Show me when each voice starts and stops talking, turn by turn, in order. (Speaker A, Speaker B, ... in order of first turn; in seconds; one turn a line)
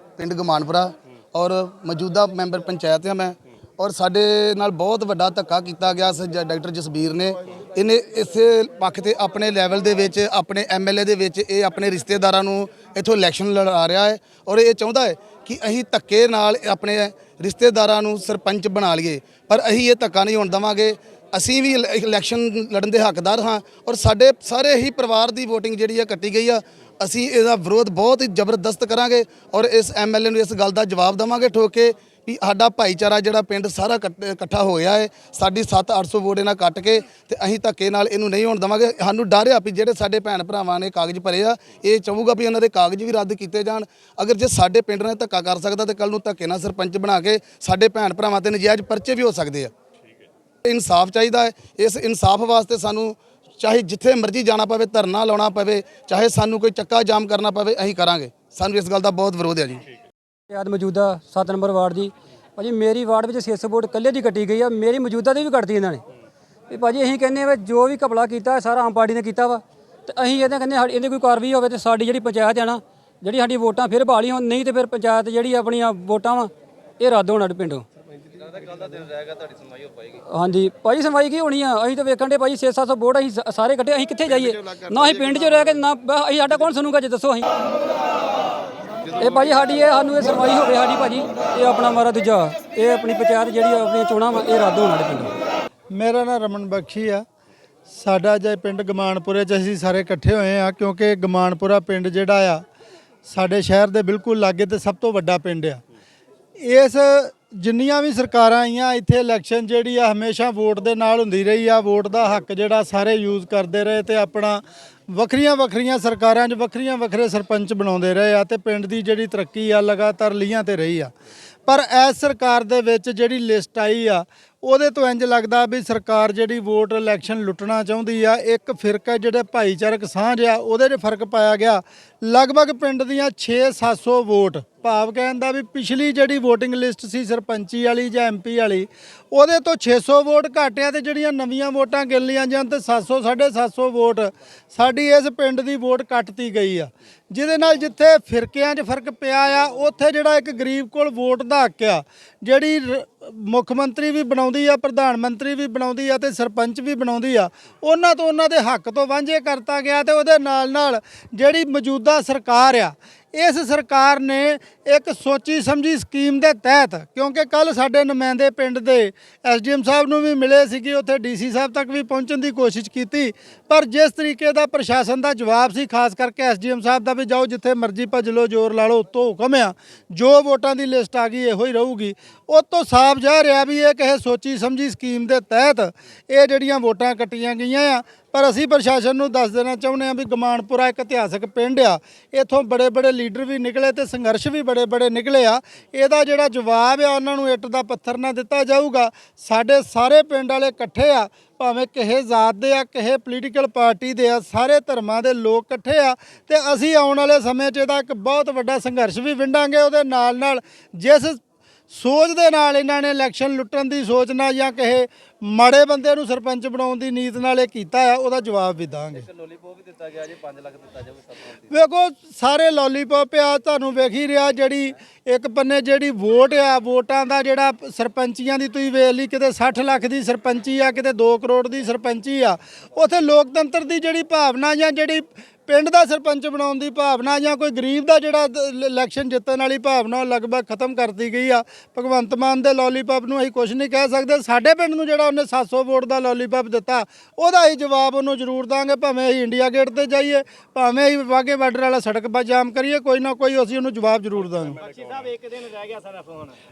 Speaker A: 0.2-49.7
Speaker A: 50.6-59.9
Speaker B: 60.5-66.0
Speaker B: 66.7-77.8
Speaker C: 78.4-80.0
Speaker B: 80.2-87.5
Speaker A: 84.6-84.9
Speaker B: 89.1-95.3
Speaker D: 95.9-97.2
Speaker D: 97.9-102.6
Speaker D: 103.2-105.8
Speaker D: 106.6-114.6
Speaker D: 115.1-121.1
Speaker D: 121.7-219.3
Speaker C: 219.4-221.2
Speaker D: 221.7-254.8
Speaker C: 255.0-256.5